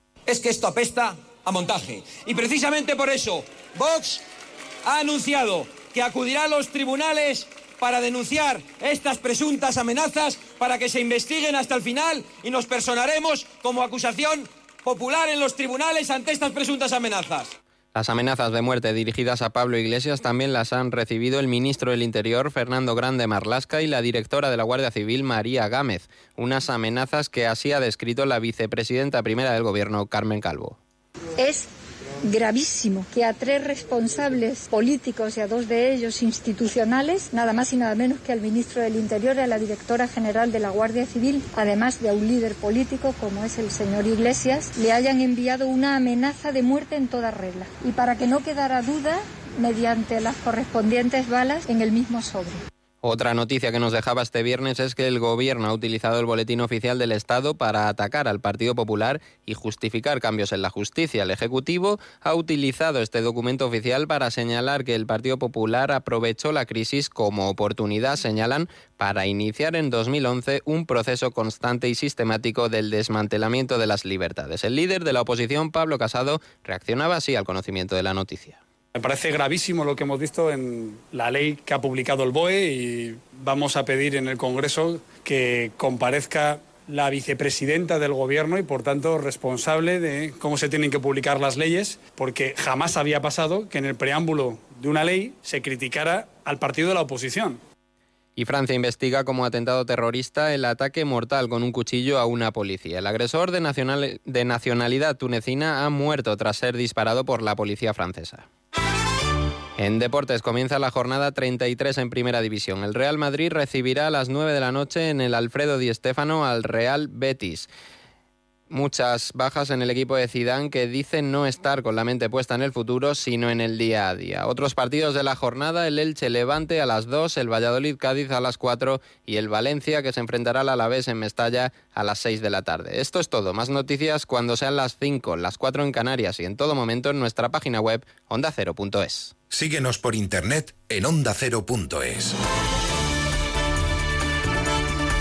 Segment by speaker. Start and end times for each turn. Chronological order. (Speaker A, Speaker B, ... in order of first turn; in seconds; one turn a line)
Speaker A: 0.3-4.2
Speaker A: 4.8-17.5
Speaker B: 17.9-30.8
Speaker C: 31.4-31.7
Speaker C: 32.2-52.6
Speaker B: 53.0-78.6
Speaker D: 79.0-97.6
Speaker B: 98.4-108.5
Speaker B: 109.8-117.7
Speaker B: 118.7-139.3
Speaker E: 139.5-142.3